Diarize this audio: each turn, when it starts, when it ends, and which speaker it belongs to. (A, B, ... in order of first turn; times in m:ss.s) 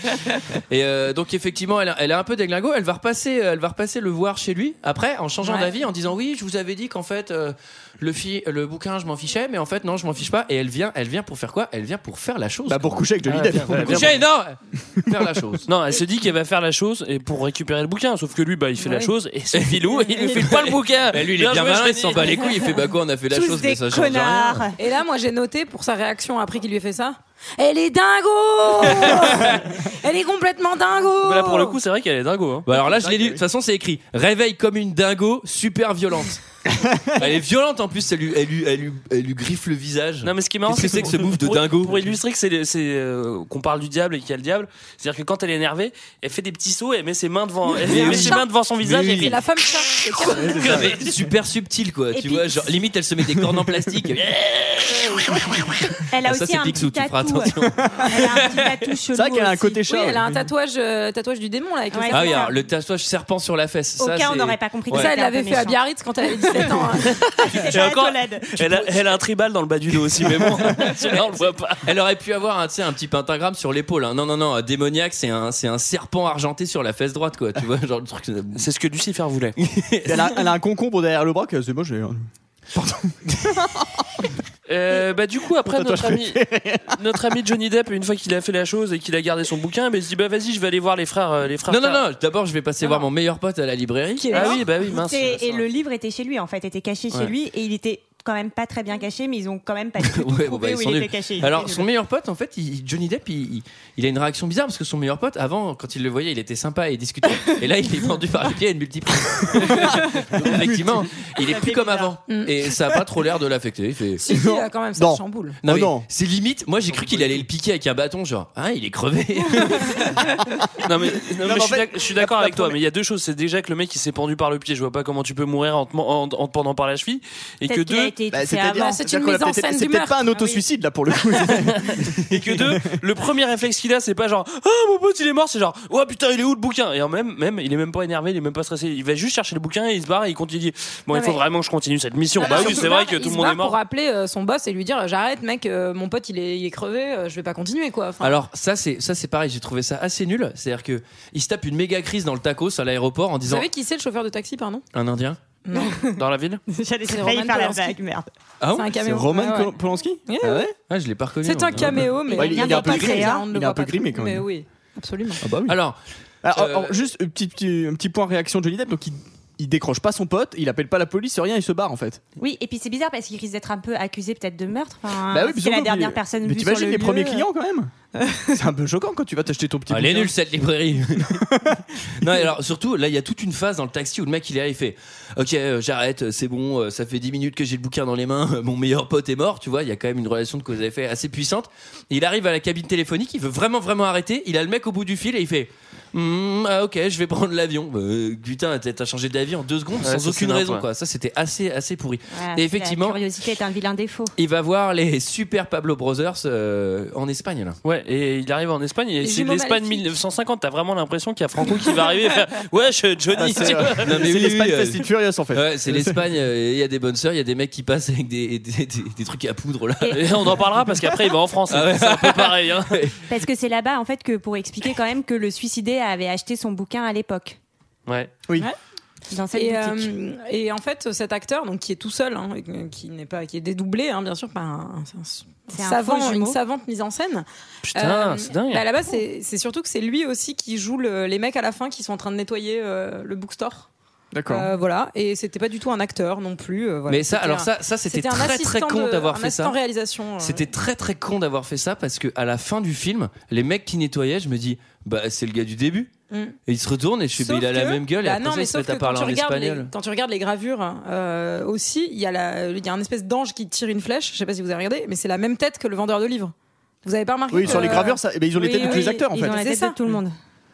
0:00.7-0:13.1 A
0:05.4-0:05.7 B
0:12.7-0:14.2 C
0:13.3-0:14.2 D
0:13.7-0:15.7 A
0:14.8-0:15.4 C
0:15.7-0:22.5 D
0:18.8-0:19.1 B
0:19.5-0:24.7 A
0:23.3-0:24.8 E
0:24.8-0:31.8 B
0:29.3-0:29.6 A
0:31.2-0:32.7 D
0:32.6-0:36.4 A
0:32.8-0:33.4 C
0:36.7-0:37.2 C
0:37.1-0:42.0 A
0:40.2-0:49.4 D
0:47.8-0:48.4 B
0:47.9-0:49.4 A
0:49.2-0:50.9 B
0:50.2-0:58.5 A
0:50.5-0:51.0 D
0:50.6-0:50.9 C
0:52.1-0:52.7 E
0:56.1-0:59.8 E
0:59.1-1:00.5 C
0:59.8-1:02.6 B
1:01.9-1:02.5 E
1:02.1-1:05.1 A
1:04.0-1:05.8 E
1:04.9-1:07.3 B
1:06.4-1:09.2 E
1:07.4-1:11.8 D
1:11.8-1:18.6 A
1:18.6-1:19.6 D
1:19.6-1:20.4 A
1:20.0-1:24.2 C
1:24.7-1:32.0 D
1:25.6-1:27.0 C
1:31.7-1:34.4 A
1:34.2-1:34.6 B
1:34.3-1:35.6 D
1:34.3-1:41.9 E
1:40.0-1:54.2 A
1:50.4-1:51.0 C
1:51.4-1:52.2 E
1:52.3-1:52.5 B
1:54.2-1:55.6 B
1:54.3-1:56.1 C
1:55.6-2:00.2 A
2:00.8-2:08.1 D
2:01.3-2:02.8 C
2:07.7-2:09.0 E
2:08.3-2:12.9 C
2:08.8-2:10.2 B
2:10.3-2:10.6 E
2:11.8-2:23.8 D
2:21.1-2:21.4 B
2:22.4-2:28.4 B
2:22.5-2:22.8 C
2:28.2-2:33.7 A
2:33.4-2:34.9 B
2:34.9-2:35.4 A
2:35.6-2:36.1 B
2:35.7-2:36.0 E
2:36.2-2:36.6 D
2:36.7-2:38.3 E
2:37.1-2:38.0 B
2:38.6-2:38.9 A
2:38.7-2:40.7 B
2:39.0-2:40.7 C
2:40.9-2:42.1 A
2:41.4-2:45.4 B
2:42.3-2:43.4 E
2:42.3-2:44.5 C
2:45.4-2:45.8 C
2:45.7-2:46.0 A
2:46.4-2:52.2 C
2:46.5-2:47.0 A
2:52.4-2:57.5 E
2:55.3-2:57.9 C
2:58.2-2:58.5 E
2:58.5-3:00.3 C
2:59.9-3:01.5 A
3:01.2-3:01.8 C
3:02.2-3:23.2 A
3:20.0-3:20.8 D
3:22.3-3:24.4 E
3:24.4-3:27.8 A
3:27.8-3:34.2 D
3:29.2-3:30.1 B
3:33.3-3:36.2 C
3:34.0-3:40.4 A
3:40.1-3:43.0 D
3:41.7-3:43.2 A
3:43.3-3:47.6 E
3:49.3-3:50.1 E
3:49.5-4:03.9 B
3:55.7-3:56.6 E
3:57.8-3:58.9 D
4:04.3-4:04.7 C
4:04.5-4:10.7 B
4:07.1-4:09.8 A
4:10.4-4:16.1 A
4:16.3-4:16.6 B
4:16.7-4:19.9 A
4:17.4-4:26.5 B
4:27.0-4:30.0 B
4:27.5-4:29.6 C
4:27.6-4:30.4 E